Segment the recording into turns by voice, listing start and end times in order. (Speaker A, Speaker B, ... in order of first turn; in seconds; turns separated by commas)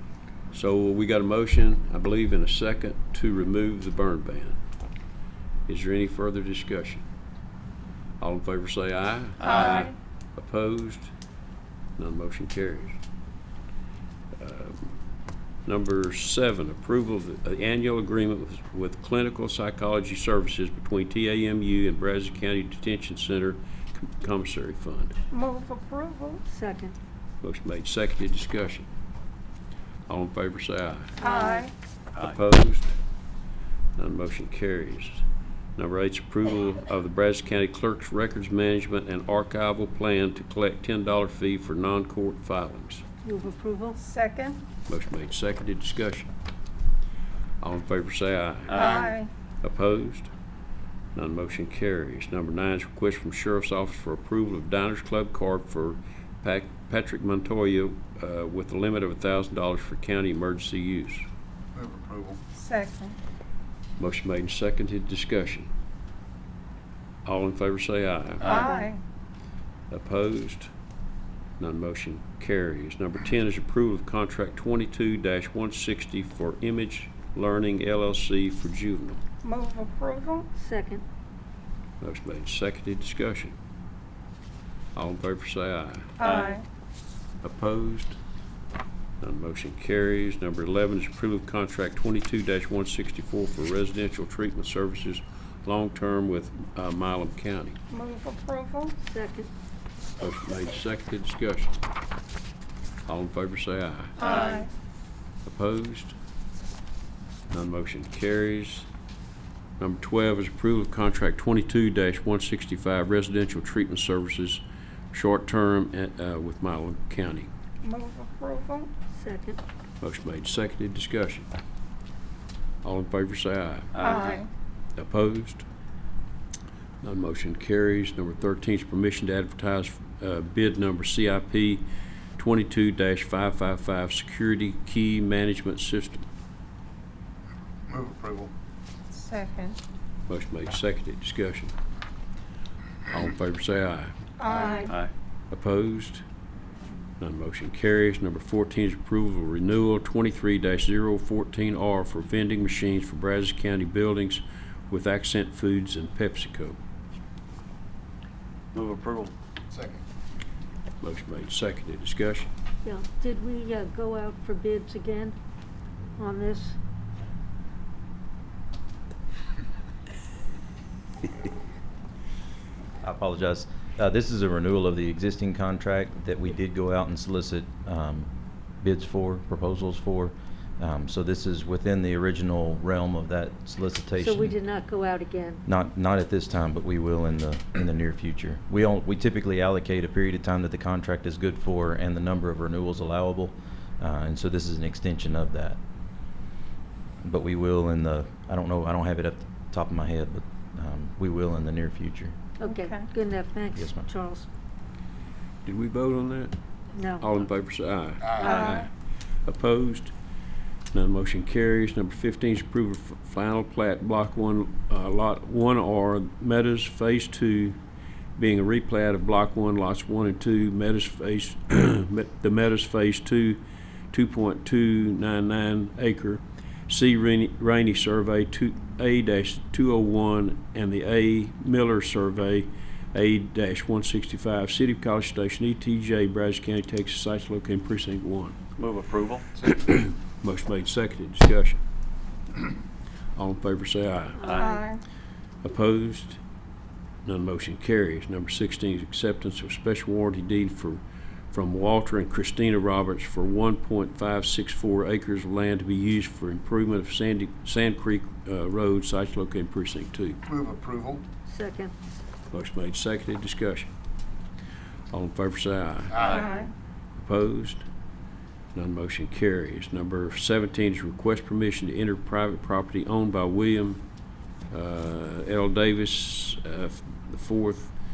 Speaker A: 0.5-4.6, Speaker A: 5.7-7.0, Speaker A: 8.2-11.1, Speaker B: 9.4-9.9, Speaker C: 9.4-9.9, Speaker A: 12.0-12.9, Speaker A: 14.3-14.9, Speaker A: 15.7-25.1, Speaker C: 25.3-26.4, Speaker D: 26.5-26.9, Speaker A: 27.4-28.9, Speaker A: 30.1-31.2, Speaker C: 31.2-31.7, Speaker A: 32.2-33.0, Speaker A: 34.0-35.2, Speaker A: 35.8-43.0, Speaker D: 43.2-44.0, Speaker C: 44.0-44.6, Speaker A: 44.9-46.3, Speaker A: 47.6-49.0, Speaker B: 48.7-49.2, Speaker C: 48.7-49.3, Speaker A: 49.6-50.3, Speaker A: 51.1-61.2, Speaker E: 61.8-62.4, Speaker C: 62.6-63.1, Speaker A: 64.0-65.7, Speaker A: 67.2-68.8, Speaker C: 68.5-69.0, Speaker A: 69.9-70.7, Speaker A: 71.6-79.2, Speaker C: 79.4-80.5, Speaker D: 80.6-81.0, Speaker A: 82.0-83.5, Speaker A: 85.0-86.2, Speaker C: 86.2-86.6, Speaker B: 86.3-86.5, Speaker A: 87.4-88.2, Speaker A: 89.2-97.8, Speaker C: 97.9-99.0, Speaker D: 99.0-99.5, Speaker A: 100.2-101.7, Speaker A: 103.1-104.5, Speaker C: 104.2-104.7, Speaker A: 105.5-106.2, Speaker A: 107.5-108.9, Speaker A: 109.8-117.5, Speaker C: 117.8-118.9, Speaker D: 119.1-119.6, Speaker A: 120.0-121.5, Speaker A: 122.8-124.3, Speaker B: 124.0-124.5, Speaker C: 124.0-124.5, Speaker A: 125.0-125.7, Speaker A: 127.0-136.3, Speaker E: 137.9-138.5, Speaker C: 139.1-139.8, Speaker A: 140.3-141.7, Speaker A: 143.1-144.1, Speaker C: 144.4-145.0, Speaker B: 144.5-145.1, Speaker A: 145.5-146.2, Speaker A: 147.2-156.8, Speaker B: 158.8-159.3, Speaker E: 159.7-160.0, Speaker A: 161.0-162.5, Speaker D: 162.8-165.4, Speaker D: 166.2-166.8, Speaker F: 173.0-178.3, Speaker F: 178.8-184.6, Speaker D: 184.2-185.6, Speaker F: 185.7-195.8, Speaker F: 197.2-202.3, Speaker D: 202.6-204.5, Speaker C: 202.6-203.1, Speaker F: 203.8-204.1, Speaker A: 205.6-206.6, Speaker D: 206.9-207.3, Speaker A: 207.2-208.9, Speaker E: 208.2-208.6, Speaker C: 208.4-208.9, Speaker A: 209.5-210.1, Speaker A: 210.9-217.8, Speaker A: 218.4-238.6, Speaker B: 238.8-239.5, Speaker A: 239.7-241.8, Speaker A: 243.3-244.5, Speaker D: 244.4-244.7, Speaker B: 244.4-244.8, Speaker C: 244.6-245.0, Speaker A: 245.6-246.4, Speaker A: 247.2-260.4, Speaker E: 260.5-261.2, Speaker D: 261.5-261.9, Speaker A: 262.5-263.9, Speaker A: 265.1-266.4, Speaker E: 266.1-266.6, Speaker C: 266.3-266.7, Speaker A: 267.1-267.9, Speaker A: 268.7-274.0, Speaker A: 274.7-277.9